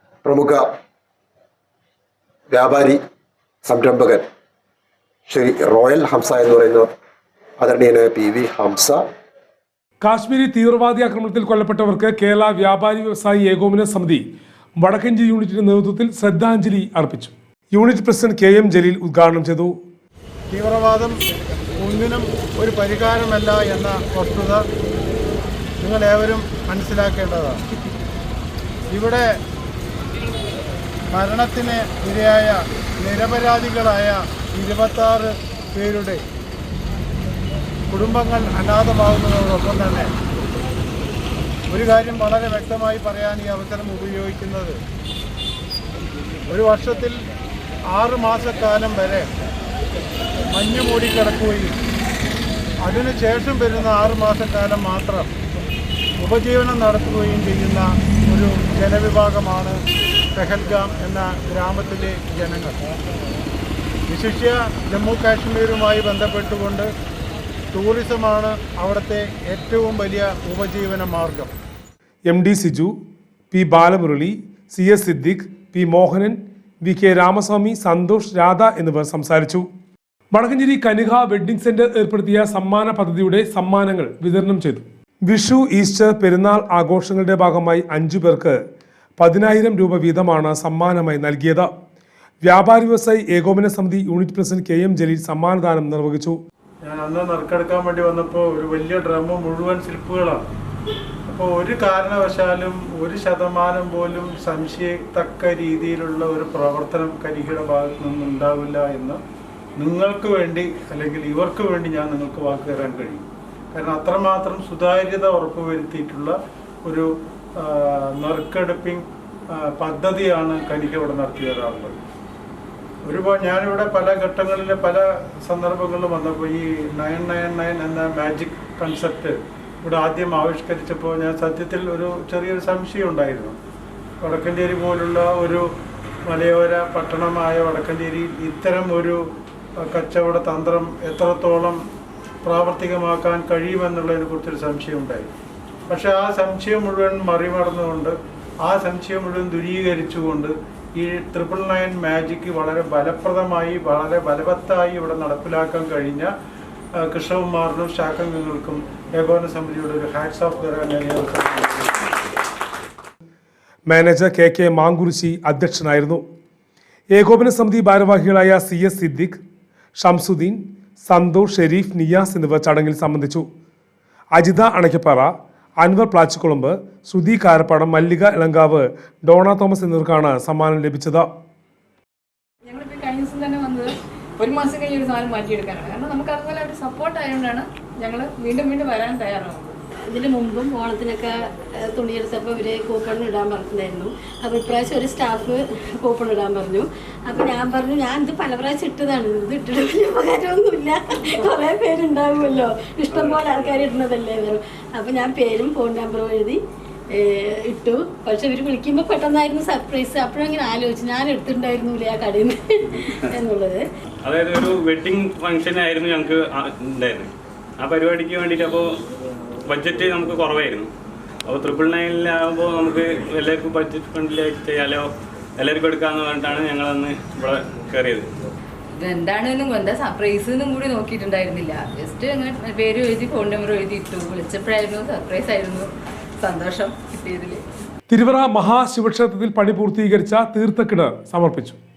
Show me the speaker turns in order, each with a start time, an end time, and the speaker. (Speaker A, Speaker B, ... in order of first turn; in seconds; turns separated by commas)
Speaker A: 0.2-0.7, Speaker A: 2.5-3.0, Speaker A: 3.6-4.2, Speaker A: 5.3-6.9, Speaker A: 7.6-9.0, Speaker B: 10.0-14.2, Speaker B: 14.8-19.8, Speaker C: 20.5-21.1, Speaker C: 21.8-24.6, Speaker C: 25.8-27.6, Speaker C: 28.9-29.3, Speaker C: 31.1-36.2, Speaker C: 37.9-40.1, Speaker C: 41.7-44.8, Speaker C: 46.5-47.2, Speaker C: 47.9-49.3, Speaker C: 50.5-51.7, Speaker C: 52.9-55.3, Speaker C: 56.2-59.8, Speaker C: 60.4-62.8, Speaker C: 64.1-66.9, Speaker C: 67.7-71.5, Speaker B: 72.3-73.0, Speaker B: 73.5-79.7, Speaker B: 80.3-88.6, Speaker B: 89.2-91.7, Speaker B: 92.4-96.4, Speaker C: 96.9-100.4, Speaker C: 101.3-109.2, Speaker C: 109.8-117.1, Speaker C: 117.6-119.0, Speaker C: 119.6-122.0, Speaker C: 123.0-133.6, Speaker C: 134.2-135.7, Speaker C: 136.3-139.2, Speaker C: 139.9-141.8, Speaker C: 142.4-145.3, Speaker C: 145.9-156.3, Speaker C: 157.0-161.9, Speaker B: 163.9-166.2, Speaker B: 167.1-169.4, Speaker B: 170.0-173.5, Speaker B: 174.3-181.3, Speaker D: 182.7-189.6, Speaker E: 190.1-206.6, Speaker E: 207.1-213.9, Speaker F: 214.2-218.9, Speaker F: 219.7-220.9, Speaker F: 221.4-228.3, Speaker D: 228.9-237.6, Speaker B: 238.1-241.8